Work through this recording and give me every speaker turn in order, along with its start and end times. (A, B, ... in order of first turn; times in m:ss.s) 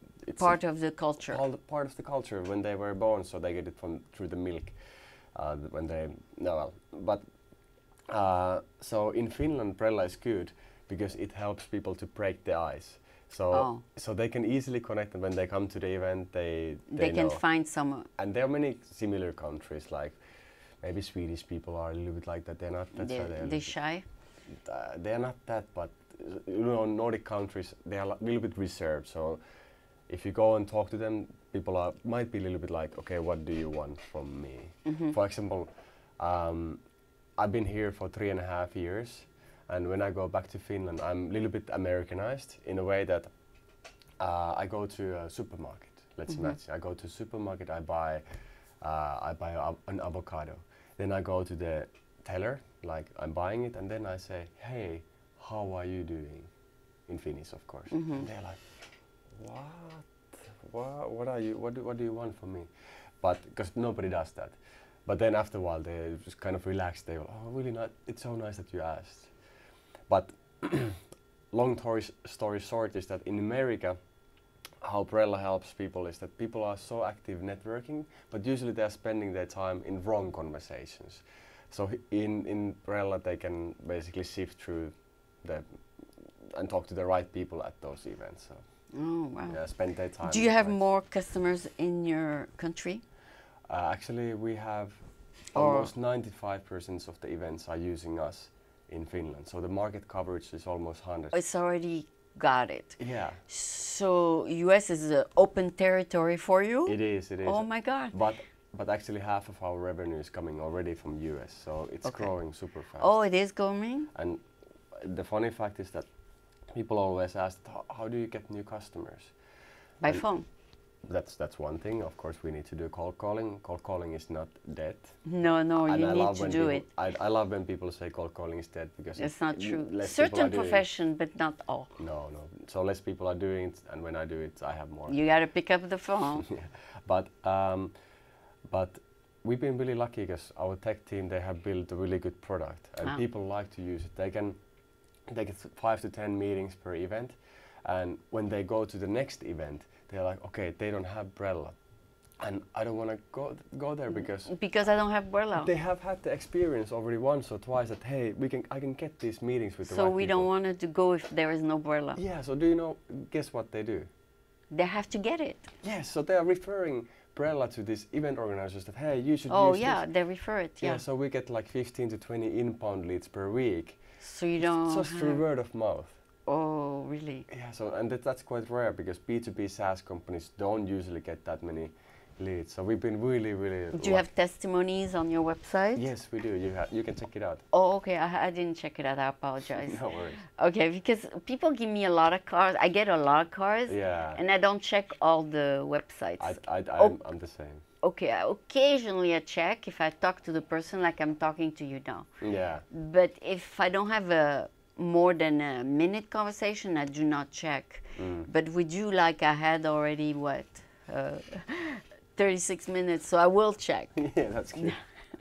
0:00.2-0:00.6 A
0:00.4-0:01.4 B
0:01.3-0:07.2 A
0:08.1-0:17.4 A
0:13.5-0:13.8 B
0:16.9-0:18.1 B
0:18.2-0:20.2 A
0:20.8-0:23.7 A
0:23.0-0:24.0 B
0:24.5-0:29.4 A
0:30.1-0:36.8 A
0:34.9-0:35.2 B
0:37.4-0:43.3 A
0:44.2-0:48.2 A
0:48.8-0:56.5 A
0:57.1-0:58.6 A
0:57.9-0:58.3 B
0:59.3-1:09.3 A
1:10.1-1:14.0 A
1:14.8-1:28.6 A
1:28.9-1:29.6 B
1:29.5-1:30.8 A
1:30.2-1:33.0 B
1:33.7-1:35.0 A
1:35.5-1:41.4 A
1:35.6-1:35.9 B
1:41.3-1:48.2 B
1:43.0-1:43.4 A
1:46.9-1:53.2 A
1:52.0-1:52.3 B
1:53.0-1:54.1 B
1:54.1-1:56.1 A
1:56.7-1:59.3 A
2:00.0-2:00.4 B
2:01.0-2:05.2 A
2:05.2-2:06.8 B
2:05.8-2:10.8 A
2:09.2-2:11.9 B
2:12.0-2:15.2 A
2:15.1-2:16.5 B
2:16.4-2:17.9 A
2:18.7-2:24.6 A
2:25.3-2:31.8 A
2:32.4-2:34.5 A
2:34.4-2:35.7 B
2:35.6-2:40.5 A
2:39.9-2:42.2 B
2:42.2-2:44.1 A
2:44.7-2:45.7 B
2:45.8-2:50.0 A
2:49.5-2:51.0 B
2:50.8-2:54.0 A
2:54.2-2:55.4 B
2:54.6-2:56.2 A
2:56.5-2:57.5 B
2:57.5-3:04.3 A
3:03.9-3:06.1 B
3:06.0-3:07.6 A
3:07.7-3:17.2 B
3:09.8-3:10.4 A
3:13.9-3:14.4 A
3:16.4-3:17.8 A
3:18.0-3:22.3 B
3:22.4-3:22.8 A
3:22.9-3:34.1 B
3:28.2-3:28.5 A
3:34.2-3:35.0 A